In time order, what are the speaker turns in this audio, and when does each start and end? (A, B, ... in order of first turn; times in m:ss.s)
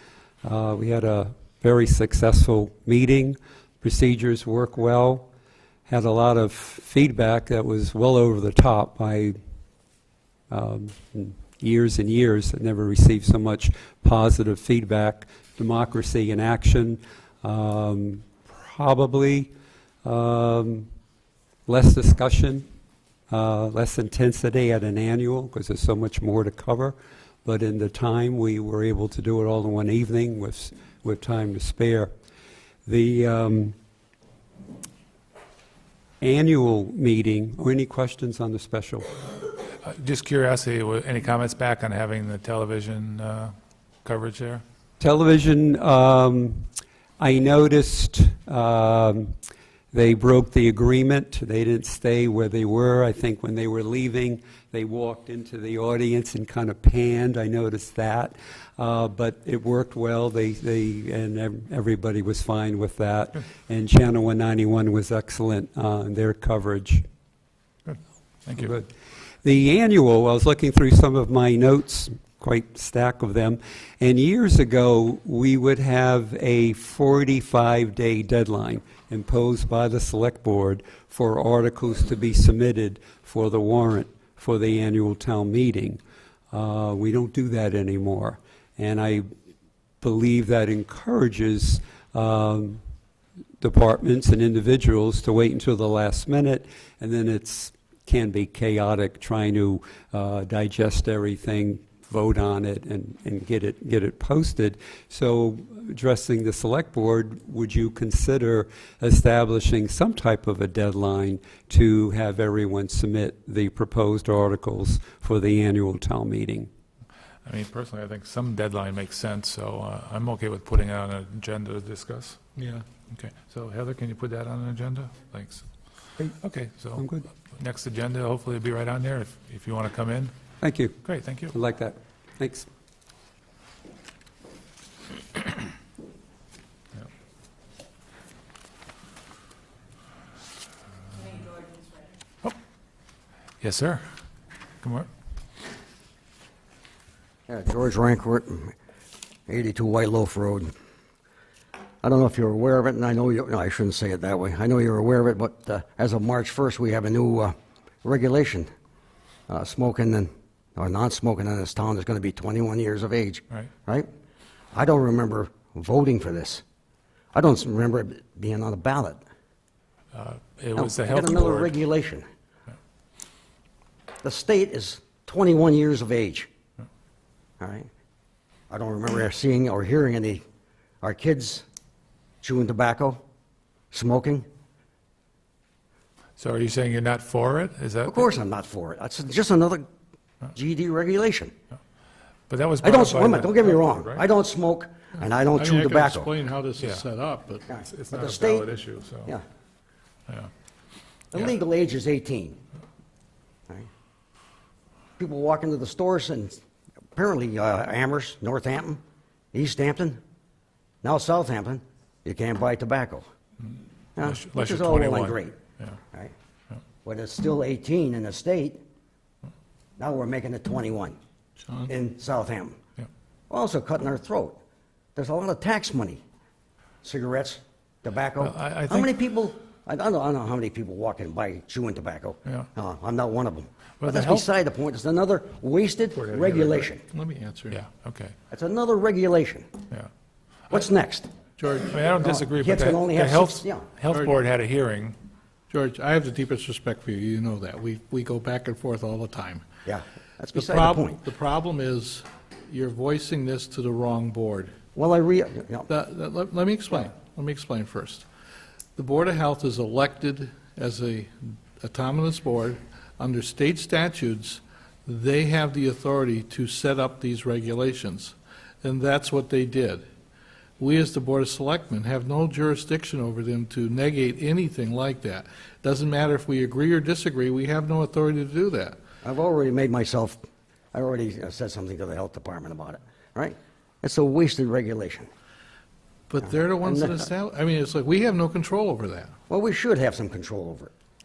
0:00.4-0:05.3 A
0:05.9-0:09.4 A
0:10.5-0:19.5 A
0:20.0-0:20.9 A
0:21.7-0:22.6 A
0:23.3-0:32.1 A
0:32.8-0:33.7 A
0:36.2-0:39.1 A
0:39.8-0:43.5 B
0:44.0-0:44.6 B
0:45.0-0:46.6 A
0:47.2-0:49.3 A
0:49.9-1:07.0 A
1:07.8-1:08.7 B
1:08.6-1:08.9 A
1:09.4-1:26.0 A
1:26.5-1:29.3 A
1:30.0-1:32.8 A
1:33.6-1:56.7 A
1:57.4-2:02.5 B
2:02.6-2:02.8 C
2:03.1-2:05.6 B
2:06.3-2:07.0 B
2:07.0-2:07.2 A
2:07.5-2:10.3 B
2:10.6-2:11.0 A
2:11.0-2:11.5 B
2:11.5-2:12.7 A
2:23.6-2:24.0 B
2:24.8-2:25.1 B
2:27.5-2:28.7 D
2:29.5-2:30.7 D
2:32.0-2:38.7 D
2:39.5-2:44.1 D
2:44.7-2:46.6 D
2:47.3-2:49.2 D
2:50.1-2:51.7 B
2:50.7-2:52.2 D
2:54.2-2:56.5 D
2:57.6-2:57.9 D
2:58.7-3:00.4 D
3:01.0-3:01.6 D
3:02.4-3:03.2 D
3:03.9-3:04.4 D
3:06.4-3:08.3 B
3:08.0-3:09.8 D
3:10.5-3:11.5 D
3:12.5-3:14.2 B
3:12.8-3:16.3 D
3:15.6-3:17.7 C
3:16.8-3:17.0 B
3:17.7-3:18.7 D
3:17.8-3:19.3 B
3:21.3-3:22.6 D
3:25.2-3:26.6 D
3:27.1-3:29.0 D
3:29.5-3:30.2 D
3:31.0-3:33.2 D
3:33.7-3:36.0 B
3:34.2-3:35.6 D
3:37.0-3:38.8 D
3:40.0-3:41.2 D
3:41.9-3:42.8 D
3:43.5-3:44.6 D
3:45.1-3:46.2 D
3:47.0-3:57.0 D
3:48.4-3:49.1 B
3:54.0-3:54.4 B
3:56.2-3:56.9 B
3:57.1-3:57.8 C
3:57.7-3:58.3 B
3:58.5-3:59.7 D
4:00.7-4:01.3 D
4:01.6-4:02.4 C
4:01.9-4:05.2 B
4:02.2-4:03.9 D
4:05.7-4:09.6 C
4:09.8-4:11.2 D
4:10.5-4:14.7 C
4:14.9-4:15.9 D
4:15.9-4:18.3 C
4:19.0-4:30.0 C
4:30.8-4:39.0 C
4:39.2-4:40.4 D
4:40.9-4:45.3 D
4:46.3-4:49.3 C
4:46.5-4:47.2 D
4:49.5-4:50.9 D